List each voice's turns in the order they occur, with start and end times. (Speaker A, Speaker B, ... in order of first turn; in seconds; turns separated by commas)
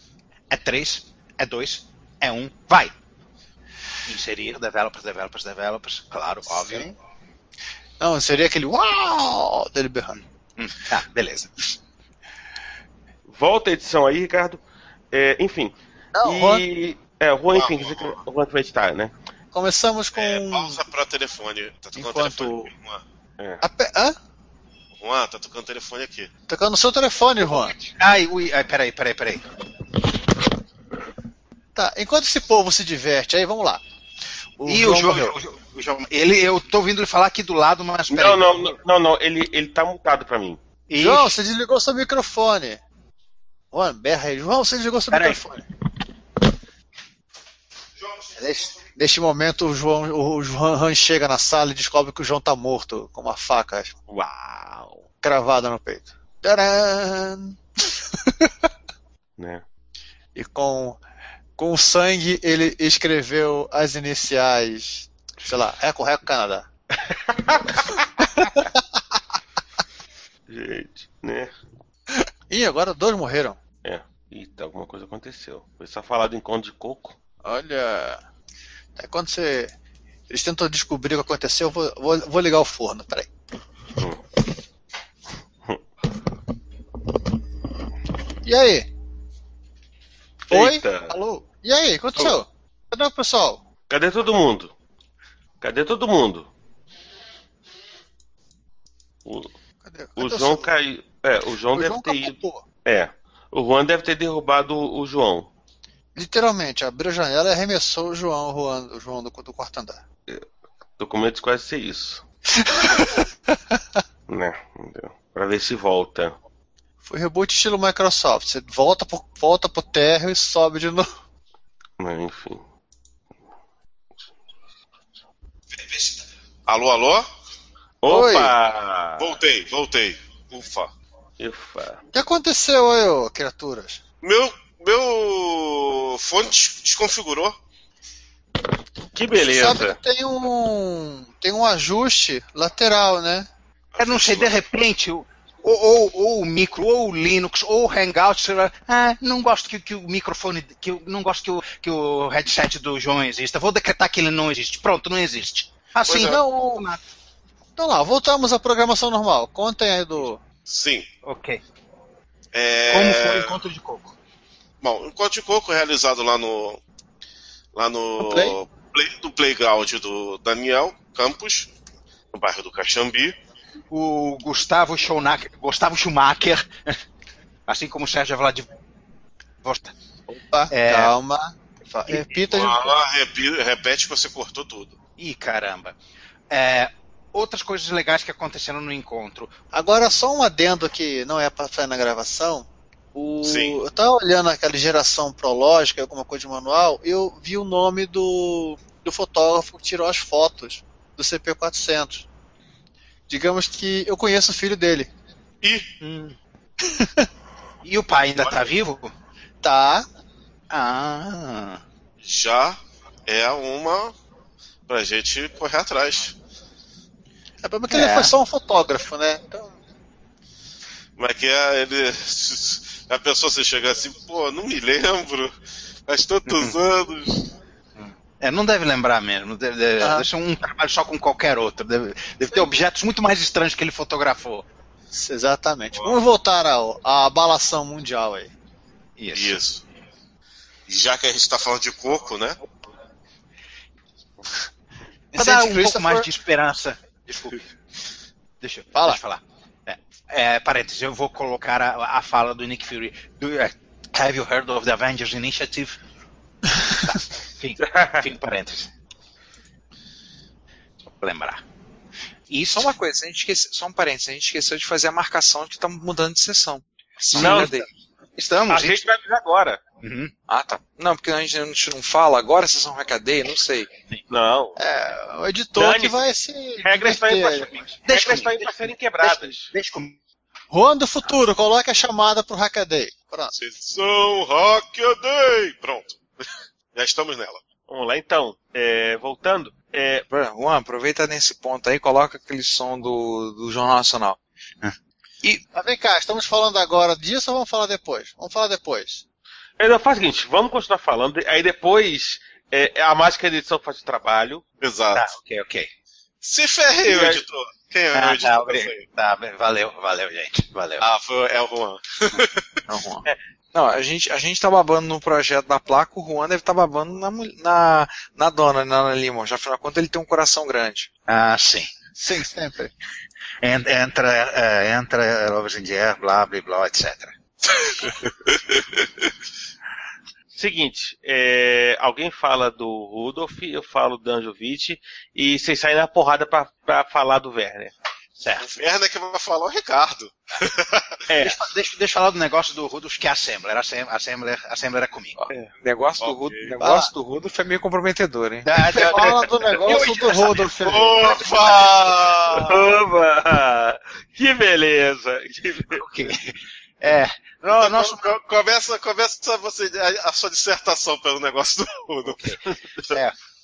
Speaker A: 0.5-2.9, Speaker A: 4.0-6.9, Speaker B: 6.5-6.9, Speaker B: 8.0-10.2, Speaker A: 10.6-11.5, Speaker C: 13.3-14.6, Speaker C: 15.1-19.1, Speaker B: 16.1-16.6, Speaker D: 17.5-18.2, Speaker B: 19.5-20.9, Speaker D: 20.1-23.0, Speaker B: 21.9-22.7, Speaker B: 23.6-24.1, Speaker D: 25.0-26.3, Speaker B: 26.5-27.7, Speaker A: 28.0-29.5, Speaker B: 31.7-33.8, Speaker B: 34.6-35.3, Speaker A: 34.6-38.7, Speaker C: 38.1-40.6, Speaker A: 40.9-41.3, Speaker B: 40.9-42.8, Speaker B: 43.7-45.6, Speaker A: 45.1-45.4, Speaker B: 48.4-53.9, Speaker C: 54.1-55.0, Speaker B: 55.2-57.6, Speaker C: 59.4-59.6, Speaker B: 60.3-61.0, Speaker B: 61.6-66.7, Speaker B: 68.4-68.7, Speaker C: 70.5-71.5, Speaker B: 72.5-73.6, Speaker C: 73.8-77.1, Speaker B: 77.4-78.2, Speaker B: 79.0-79.7, Speaker B: 80.3-83.3, Speaker B: 88.4-88.9, Speaker C: 90.5-91.2, Speaker B: 90.5-93.6, Speaker C: 93.9-94.7, Speaker C: 95.6-96.5, Speaker C: 99.2-99.5, Speaker B: 99.8-100.7, Speaker C: 100.2-105.5, Speaker B: 101.7-102.6, Speaker B: 106.2-110.0, Speaker C: 111.0-112.2, Speaker B: 112.6-113.2, Speaker C: 114.3-116.3, Speaker B: 117.0-121.1, Speaker C: 122.0-122.6, Speaker D: 126.7-127.3, Speaker C: 128.0-129.4, Speaker B: 128.0-128.6, Speaker D: 129.2-130.9, Speaker C: 131.4-132.0, Speaker B: 132.1-134.0, Speaker D: 134.2-137.6, Speaker C: 139.1-140.0, Speaker B: 139.3-143.5, Speaker D: 143.9-144.6, Speaker A: 144.0-157.0, Speaker D: 156.1-156.4, Speaker B: 157.8-160.4, Speaker D: 160.7-161.1, Speaker A: 161.2-161.6, Speaker D: 162.5-163.6, Speaker A: 162.9-164.1, Speaker D: 164.8-166.8, Speaker D: 167.7-171.7, Speaker B: 168.2-168.6, Speaker D: 172.3-173.3, Speaker A: 173.9-177.0, Speaker A: 177.7-178.7, Speaker A: 179.6-179.9, Speaker B: 180.5-183.0, Speaker A: 180.7-181.1, Speaker D: 182.1-184.9, Speaker A: 185.2-186.0, Speaker A: 186.5-189.5, Speaker B: 189.7-202.2, Speaker D: 193.4-193.8, Speaker B: 203.3-205.1, Speaker D: 205.6-205.9, Speaker A: 206.0-206.3, Speaker B: 206.8-207.3, Speaker A: 207.8-209.1, Speaker B: 209.6-210.1, Speaker A: 210.7-211.8, Speaker D: 212.2-214.1, Speaker D: 214.9-216.3, Speaker B: 217.6-219.8, Speaker A: 217.9-218.3, Speaker D: 221.2-225.5, Speaker D: 226.1-227.5, Speaker A: 226.4-226.8, Speaker A: 228.0-234.7, Speaker B: 230.0-230.3, Speaker B: 235.1-238.5, Speaker A: 239.2-239.6, Speaker D: 239.3-239.8, Speaker D: 240.9-242.6, Speaker B: 245.3-246.3, Speaker A: 245.3-247.6, Speaker A: 248.6-256.0, Speaker B: 248.9-249.2, Speaker A: 257.1-258.9, Speaker C: 257.8-258.2, Speaker A: 261.2-261.6, Speaker A: 262.5-262.9, Speaker E: 262.7-267.9, Speaker A: 267.3-267.7, Speaker C: 267.4-267.7, Speaker A: 268.4-269.1, Speaker C: 268.7-269.8, Speaker A: 270.0-270.3, Speaker E: 270.5-273.9, Speaker C: 274.3-274.8, Speaker B: 274.8-277.8, Speaker C: 275.7-276.3, Speaker C: 276.8-279.7, Speaker A: 278.0-280.2, Speaker B: 280.7-283.5, Speaker D: 283.5-286.2, Speaker D: 286.9-287.6, Speaker C: 287.9-290.2, Speaker E: 290.3-294.4, Speaker B: 295.7-299.2, Speaker C: 299.8-304.6, Speaker D: 304.8-305.3, Speaker A: 305.1-305.9, Speaker D: 306.4-309.0, Speaker C: 307.1-307.4, Speaker A: 308.1-311.1, Speaker D: 311.0-312.6, Speaker E: 312.9-321.1, Speaker A: 321.3-321.9, Speaker B: 322.1-322.9, Speaker A: 323.6-327.3, Speaker C: 330.5-337.9, Speaker A: 338.4-338.8, Speaker D: 338.6-341.2, Speaker A: 341.3-345.4, Speaker E: 345.8-348.7, Speaker D: 346.2-346.7, Speaker B: 346.8-347.1, Speaker A: 348.6-350.0, Speaker B: 348.9-351.4, Speaker D: 349.9-350.2, Speaker D: 350.8-352.8, Speaker C: 352.6-356.0, Speaker A: 355.9-358.3, Speaker D: 357.7-362.4, Speaker A: 362.2-362.6, Speaker C: 362.6-363.1, Speaker A: 363.1-363.4